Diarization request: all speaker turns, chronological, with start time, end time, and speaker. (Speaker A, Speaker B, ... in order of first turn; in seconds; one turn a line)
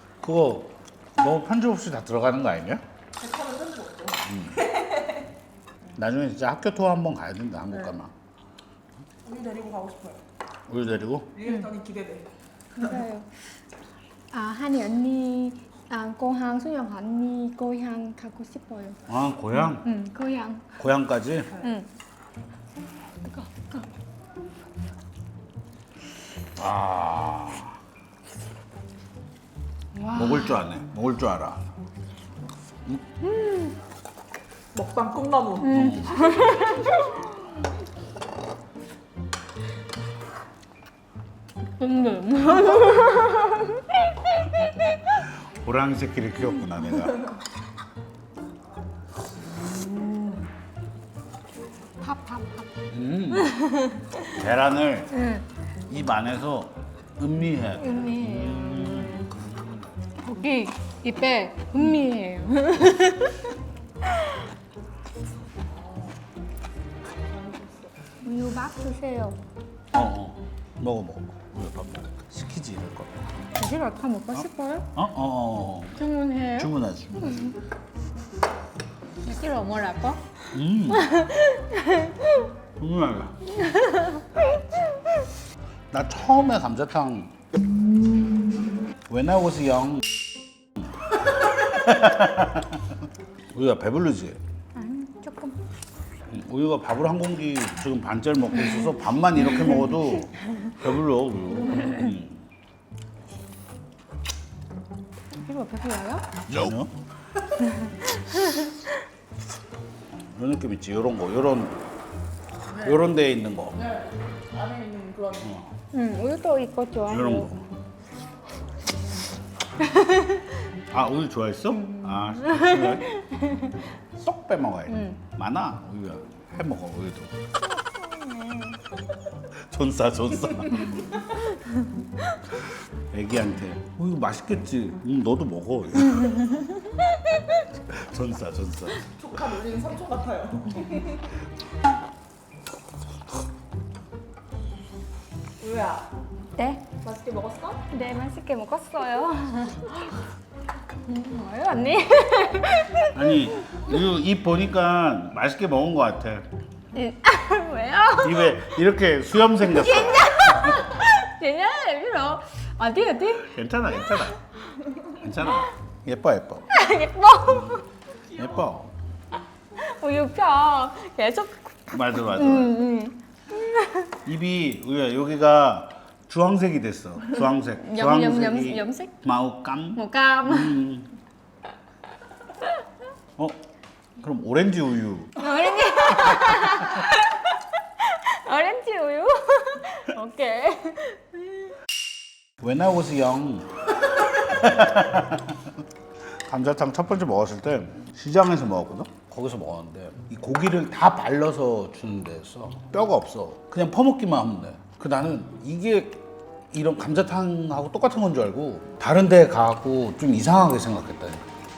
Speaker A: 0.2-2.8
Speaker B: 3.2-5.3
Speaker A: 4.3-4.7
Speaker A: 5.9-8.1
Speaker B: 7.7-8.0
Speaker B: 9.2-10.2
Speaker A: 10.7-11.3
Speaker B: 11.3-12.3
Speaker C: 11.4-11.7
Speaker C: 12.8-13.3
Speaker C: 14.3-19.0
Speaker A: 19.1-19.9
Speaker C: 19.6-20.7
Speaker A: 20.8-21.5
Speaker B: 21.5-21.8
Speaker C: 21.6-21.9
Speaker C: 23.2-23.9
Speaker A: 26.6-27.8
Speaker C: 29.9-30.6
Speaker A: 30.1-31.7
Speaker C: 33.2-33.8
Speaker B: 34.7-35.9
Speaker C: 35.6-37.3
Speaker A: 35.6-36.2
Speaker C: 41.8-44.7
Speaker A: 45.5-47.3
Speaker C: 49.6-50.4
Speaker C: 52.0-52.7
Speaker A: 52.9-55.2
Speaker C: 53.3-54.2
Speaker C: 55.1-55.4
Speaker A: 55.9-59.6
Speaker C: 57.7-59.3
Speaker C: 60.2-63.5
Speaker B: 65.7-66.2
Speaker B: 67.1-68.0
Speaker C: 68.2-69.4
Speaker A: 69.9-73.2
Speaker C: 73.6-74.9
Speaker A: 74.3-77.5
Speaker C: 76.0-77.5
Speaker C: 79.2-82.5
Speaker A: 80.5-81.2
Speaker A: 82.8-83.3
Speaker C: 83.5-84.4
Speaker A: 85.9-87.3
Speaker A: 89.1-90.0
Speaker A: 91.5-92.9
Speaker A: 93.5-94.4
Speaker C: 94.8-95.6
Speaker A: 96.3-102.4
Speaker C: 105.4-106.3
Speaker A: 106.5-106.9
Speaker C: 107.7-108.8
Speaker A: 110.3-111.8
Speaker B: 112.7-113.1
Speaker A: 112.8-113.8
Speaker B: 113.8-115.6
Speaker A: 115.4-115.7
Speaker C: 115.9-117.6
Speaker A: 117.1-117.6
Speaker C: 119.8-120.5
Speaker A: 120.9-123.2
Speaker C: 121.8-123.8
Speaker A: 123.9-127.3
Speaker C: 124.9-125.2
Speaker C: 127.6-128.8
Speaker A: 129.7-131.2
Speaker A: 132.5-136.6
Speaker C: 136.5-136.8
Speaker A: 137.7-139.1
Speaker B: 139.1-141.3
Speaker B: 145.6-146.1
Speaker C: 146.6-146.8
Speaker B: 147.0-147.8
Speaker C: 147.9-150.2
Speaker C: 151.1-153.9
Speaker A: 153.1-156.5
Speaker C: 156.9-158.7
Speaker A: 158.2-160.8
Speaker C: 159.6-163.6
Speaker A: 163.4-164.4
Speaker A: 165.1-166.7
Speaker C: 166.7-167.8
Speaker A: 167.4-167.8
Speaker A: 168.3-168.9
Speaker C: 169.7-174.1
Speaker A: 171.9-172.8
Speaker A: 174.2-181.1
Speaker C: 177.6-179.1
Speaker C: 179.9-180.8
Speaker A: 184.2-185.4
Speaker C: 185.4-191.7
Speaker A: 192.6-195.7
Speaker A: 196.4-211.5